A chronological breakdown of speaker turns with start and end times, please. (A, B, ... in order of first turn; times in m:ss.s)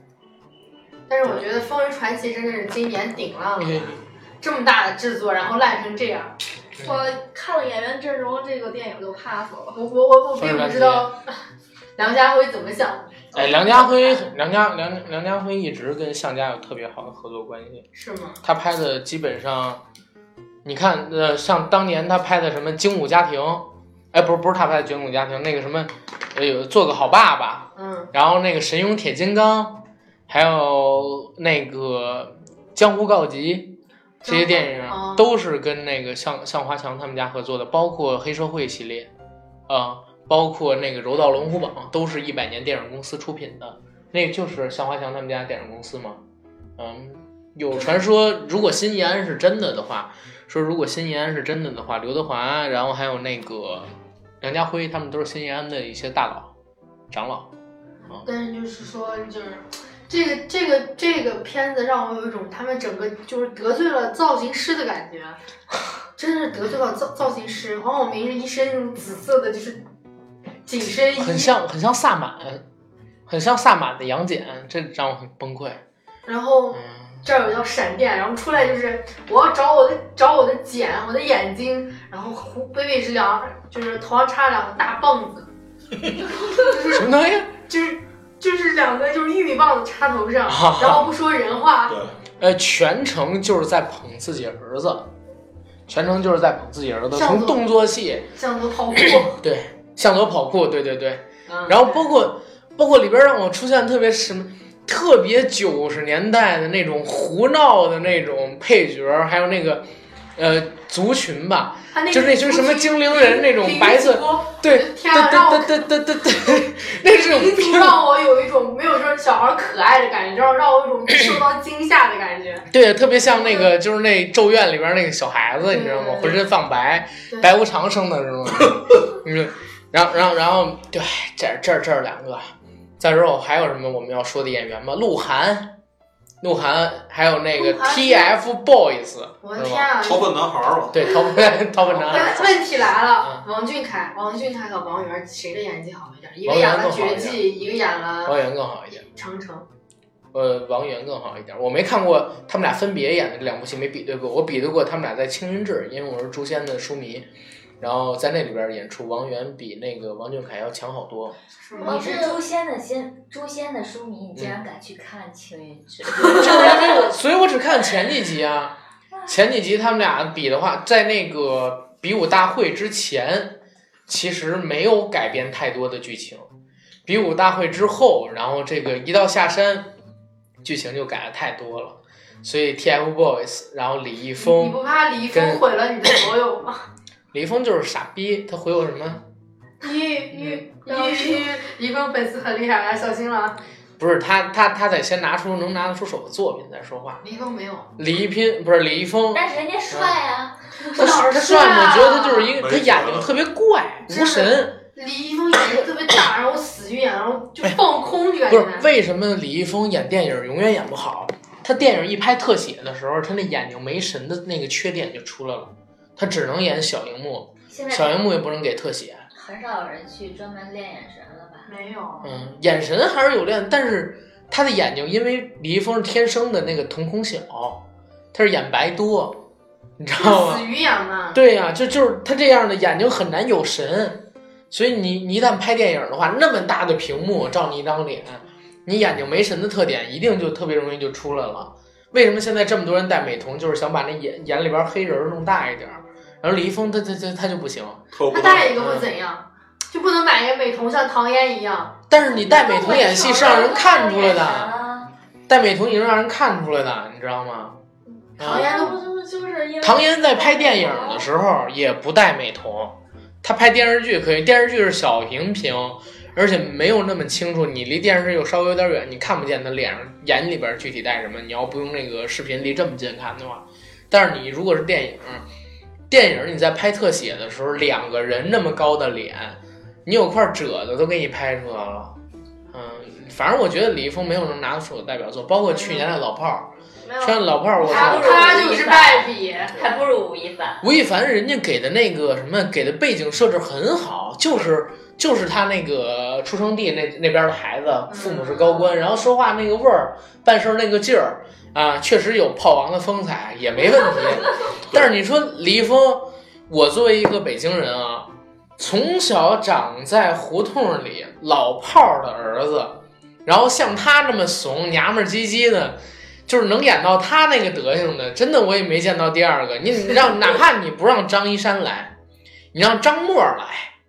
0:01.1-0:03.9 A
0:03.6-0:04.0 B
0:04.4-0:06.4 A
0:06.8-0:07.1 B
0:06.8-0:09.8 C
0:09.7-0:11.3 A
0:10.4-0:11.1 B
0:12.0-0:14.2 A
0:13.3-0:17.9 B
0:18.0-0:18.4 A
0:18.4-0:19.8 B
0:20.6-0:39.1 B
0:27.8-0:28.1 A
0:34.2-0:35.3 A
0:39.7-0:46.2 B
0:46.8-0:56.5 B
0:57.1-0:57.5 B
0:58.2-1:05.4 A
1:06.2-1:09.8 A
1:10.7-1:11.5 A
1:11.2-1:12.6 B
1:13.3-1:15.8 B
1:16.3-1:25.5 A
1:16.7-1:17.3 B
1:26.3-1:32.0 A
1:26.9-1:27.5 B
1:30.5-1:31.1 B
1:31.9-1:32.2 D
1:32.4-1:35.1 B
1:35.9-1:38.3 B
1:37.1-1:37.6 A
1:38.4-1:39.4 A
1:39.0-1:58.0 B
1:41.5-1:42.1 A
1:51.9-2:02.7 A
2:02.7-2:15.7 B
2:03.3-2:03.7 A
2:05.6-2:06.4 A
2:16.4-2:19.9 B
2:17.6-2:18.4 A
2:19.4-2:20.5 A
2:20.0-2:21.2 D
2:20.9-2:22.5 B
2:22.0-2:28.4 A
2:26.4-2:27.5 B
2:28.2-2:29.0 B
2:28.9-2:29.7 A
2:30.3-2:37.3 B
2:37.8-2:41.4 B
2:41.6-2:42.3 A
2:41.8-2:42.4 C
2:41.8-2:47.1 E
2:46.2-2:56.5 B
2:57.1-2:59.9 B
3:00.6-3:04.8 B
3:04.4-3:06.8 A
3:05.3-3:05.6 B
3:07.3-3:09.2 B
3:09.8-3:13.6 A
3:10.3-3:10.6 B
3:10.9-3:11.5 C
3:14.0-3:17.2 B
3:17.2-3:17.9 A
3:18.0-3:20.2 B
3:19.3-3:21.1 E
3:20.9-3:22.5 A
3:21.0-3:24.8 B
3:22.6-3:23.4 D
3:24.1-3:28.9 A
3:28.5-3:39.2 B
3:37.7-3:38.3 E
3:39.3-3:41.7 E
3:41.7-3:42.3 A
3:42.2-3:49.5 B
3:50.0-3:50.6 B
3:50.2-3:51.4 A
3:51.3-4:08.0 B
4:08.1-4:08.8 D
4:08.3-4:12.0 A
4:08.8-4:09.1 B
4:12.1-4:14.7 B
4:12.2-4:14.0 C
4:12.5-4:15.1 E
4:15.5-4:17.8 B
4:18.1-4:21.3 C
4:18.4-4:18.7 B
4:18.4-4:19.0 A
4:19.8-4:35.5 B
4:36.1-4:42.2 B
4:42.7-4:48.6 B
4:45.7-4:46.1 A
4:47.0-4:48.5 C
4:47.8-4:49.8 A
4:47.8-4:50.8 E
4:50.8-5:22.1 B
4:58.1-4:59.0 A
5:22.7-5:23.9 B